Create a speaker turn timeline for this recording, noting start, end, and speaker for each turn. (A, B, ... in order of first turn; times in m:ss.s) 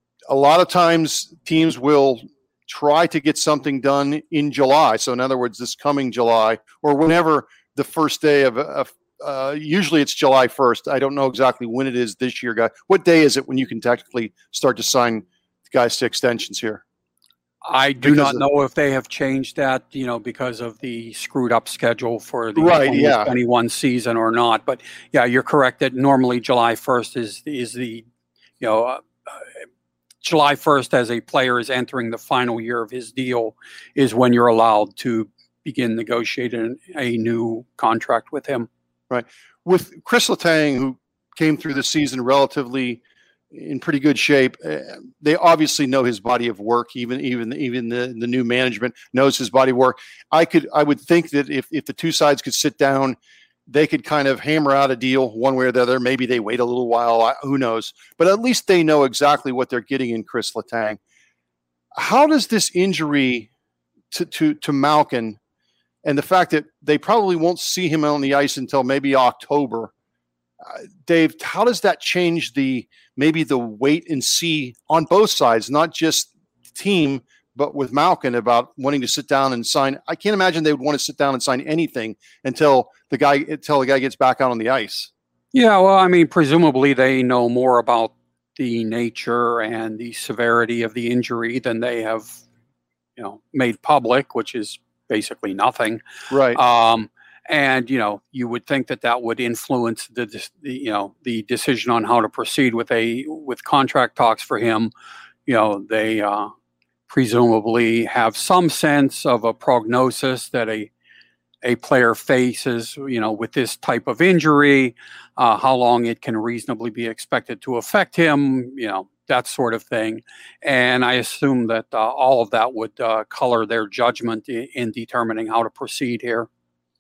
0:00.3-0:16.8 A
0:17.6-0:28.1 B
0:18.0-0:18.4 A
0:22.6-0:23.3 A
0:28.6-0:29.5 B
0:30.2-0:38.7 B
0:39.1-0:43.0 A
0:43.5-0:53.2 A
0:53.7-1:01.0 A
1:02.0-1:03.5 A
1:04.1-1:05.4 A
1:06.0-1:09.9 A
1:10.7-1:25.1 A
1:25.5-1:32.4 B
1:33.2-1:36.0 B
1:36.3-1:36.6 A
1:36.5-1:44.9 B
1:45.5-1:46.5 B
1:47.1-1:50.9 B
1:51.6-2:06.5 B